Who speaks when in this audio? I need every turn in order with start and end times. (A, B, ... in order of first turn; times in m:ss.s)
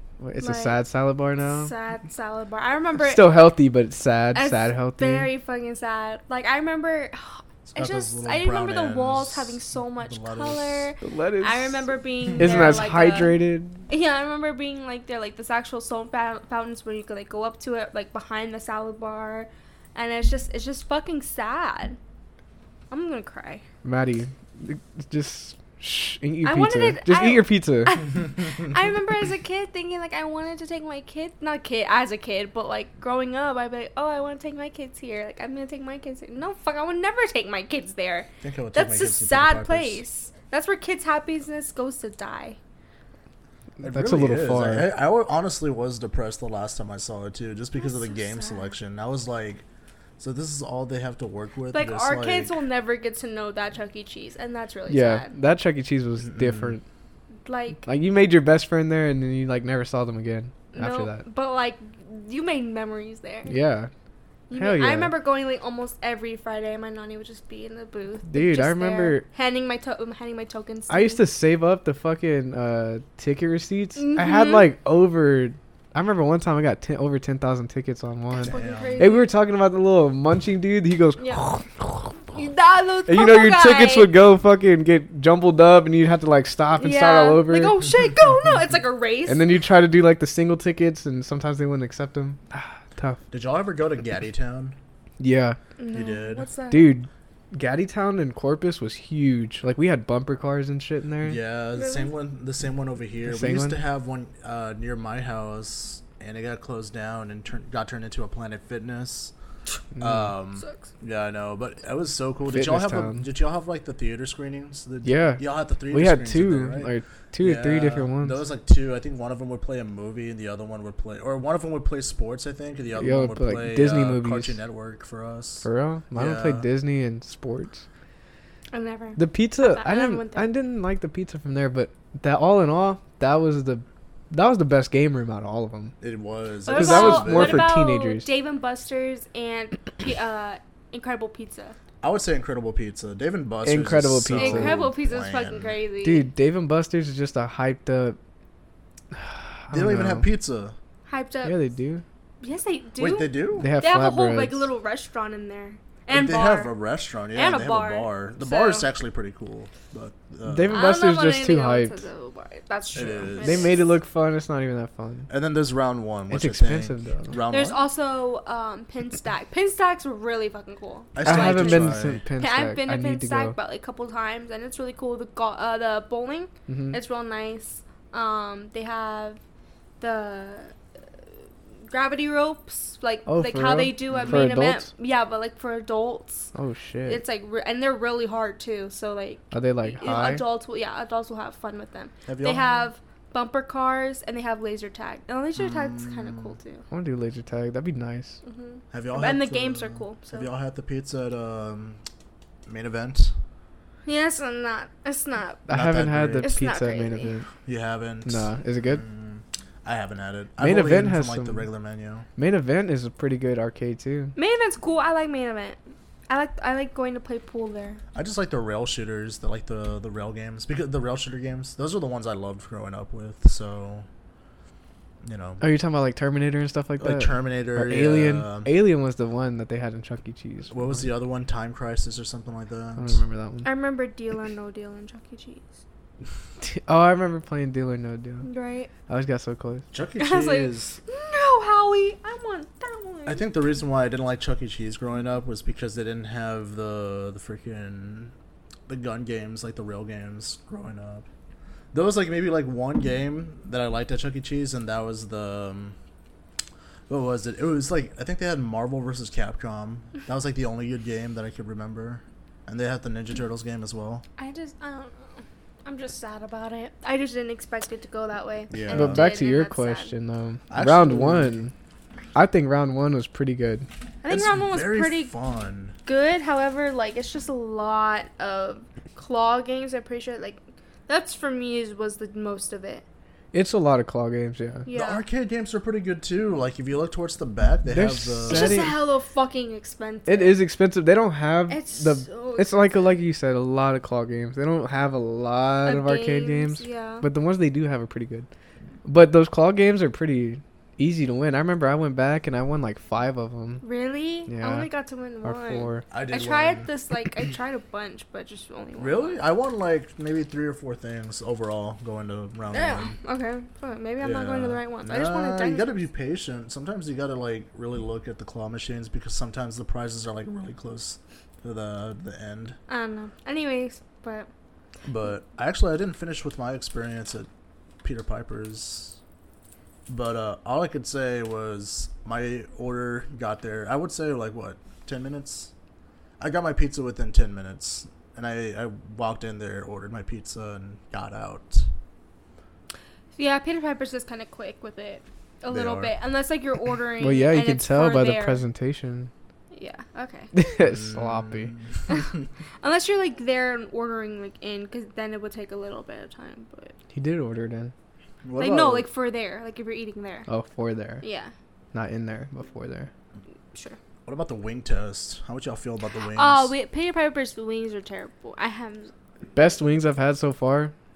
0:00.2-0:01.7 A
0:00.4-0:00.8 B
0:01.4-0:03.3 B
0:03.0-0:05.3 A
0:04.3-0:13.4 B
0:07.7-0:10.9 C
0:11.0-0:13.8 A
0:12.4-0:12.7 C
0:13.9-0:22.0 B
0:22.9-0:23.6 B
0:23.8-0:28.0 A
0:26.4-0:42.6 B
0:38.4-0:40.0 C
0:43.8-0:44.9 A
0:43.8-0:49.6 C
0:47.8-0:48.7 B
0:50.2-0:52.5 C
0:51.7-0:55.3 B
0:54.9-0:56.8 A
0:56.2-0:56.7 C
0:57.4-0:57.8 B
0:57.8-1:01.2 A
1:00.7-1:03.5 B
1:03.5-1:03.9 A
1:04.5-1:11.2 B
1:04.5-1:05.1 A
1:08.2-1:09.2 A
1:10.9-1:22.2 A
1:14.0-1:14.7 B
1:18.4-1:19.0 C
1:18.4-1:19.3 B
1:22.3-1:24.1 B
1:23.1-1:27.8 A
1:26.8-1:29.4 B
1:29.2-1:33.2 A
1:33.3-1:34.8 C
1:35.2-1:35.6 A
1:35.8-1:36.9 B
1:35.9-1:36.5 C
1:36.7-1:41.4 A
1:41.2-1:49.3 C
1:41.7-1:42.1 B
1:43.2-1:43.8 A
1:50.0-1:50.3 A
1:50.0-2:06.6 C
1:50.6-1:50.9 B
1:52.5-1:53.2 A
1:55.0-1:58.4 A
2:03.0-2:04.6 A
2:05.6-2:07.8 A
2:08.7-2:10.5 B
2:09.2-2:15.9 A
2:16.0-2:17.7 C
2:16.7-2:21.8 B
2:16.7-2:18.3 A
2:22.0-2:25.8 C
2:23.6-2:24.8 A
2:24.4-2:26.3 B
2:26.0-2:28.2 A
2:29.2-2:30.3 A
2:29.7-2:30.7 C
2:31.0-2:31.6 B
2:31.4-2:32.0 A
2:32.4-2:36.7 B
2:33.0-2:33.7 C
2:33.6-2:34.7 A
2:36.1-2:40.9 C
2:37.3-2:38.9 B
2:40.4-2:42.0 A
2:40.7-2:43.8 B
2:42.9-2:43.8 C
2:43.4-2:45.3 A
2:45.3-2:47.8 C
2:46.3-2:47.4 A
2:47.5-2:59.4 B
2:51.1-2:52.2 C
2:51.2-2:53.5 A
2:56.7-2:57.0 A
3:00.0-3:00.7 B
3:01.9-3:06.5 B
3:03.3-3:04.9 A
3:04.1-3:04.5 C
3:06.5-3:07.2 A
3:07.0-3:16.8 B
3:09.5-3:10.4 A
3:12.2-3:12.8 C
3:15.6-3:16.5 C
3:16.9-3:18.4 A
3:18.4-3:20.5 B
3:18.9-3:22.0 C
3:22.7-3:23.3 C
3:24.0-3:25.7 B
3:25.7-3:27.5 A
3:25.7-3:26.5 C
3:26.4-3:27.3 B
3:27.6-3:32.2 C
3:28.2-3:29.0 A
3:30.6-3:31.7 A
3:32.4-3:34.3 A
3:34.4-3:35.8 B
3:36.3-3:38.0 B
3:38.1-3:44.0 C
3:45.2-3:45.6 C
3:45.6-3:51.1 A
3:47.0-3:48.7 C
3:50.7-3:53.2 C
3:53.0-3:53.7 A
3:53.6-3:55.8 B
3:56.6-3:58.4 A
3:58.4-3:58.9 B
3:59.1-3:59.8 A
3:59.9-4:01.0 C
4:00.2-4:03.4 B
4:03.2-4:08.3 C
4:08.9-4:11.3 C
4:11.9-4:16.0 C
4:17.1-4:24.2 C
4:24.4-4:30.1 B
4:28.7-4:29.3 C
4:28.9-4:31.7 A
4:30.7-4:31.7 C
4:32.3-4:33.9 A
4:34.2-4:35.3 B
4:34.3-4:36.0 C
4:36.0-4:43.0 B
4:43.5-4:44.8 A
4:44.8-4:45.2 B
4:44.9-4:49.0 C
4:47.9-4:49.0 A
4:48.5-4:50.6 B
4:50.3-4:58.5 A
4:51.7-4:53.2 B
4:55.8-4:57.2 B
4:59.0-5:03.8 A
5:03.8-5:09.4 B
5:04.5-5:04.9 A
5:05.4-5:06.0 A
5:06.1-5:06.9 C
5:09.0-5:13.2 C
5:12.7-5:15.9 B
5:14.2-5:22.8 C
5:22.9-5:24.5 B
5:25.0-5:27.5 C
5:28.0-5:29.2 C
5:30.1-5:35.7 C
5:36.4-5:41.9 C
5:43.4-5:48.6 B
5:45.7-5:46.1 C
5:47.2-5:49.3 A
5:49.7-5:50.5 B
5:50.5-5:51.7 A
5:50.8-5:52.0 C
5:52.1-5:56.9 B
5:57.1-5:57.9 A
5:58.4-5:59.1 C
5:58.6-6:00.5 B
6:00.5-6:01.2 A
6:01.2-6:01.5 B
6:01.9-6:03.1 A
6:04.2-6:06.7 C
6:06.3-6:09.1 B
6:09.5-6:10.9 A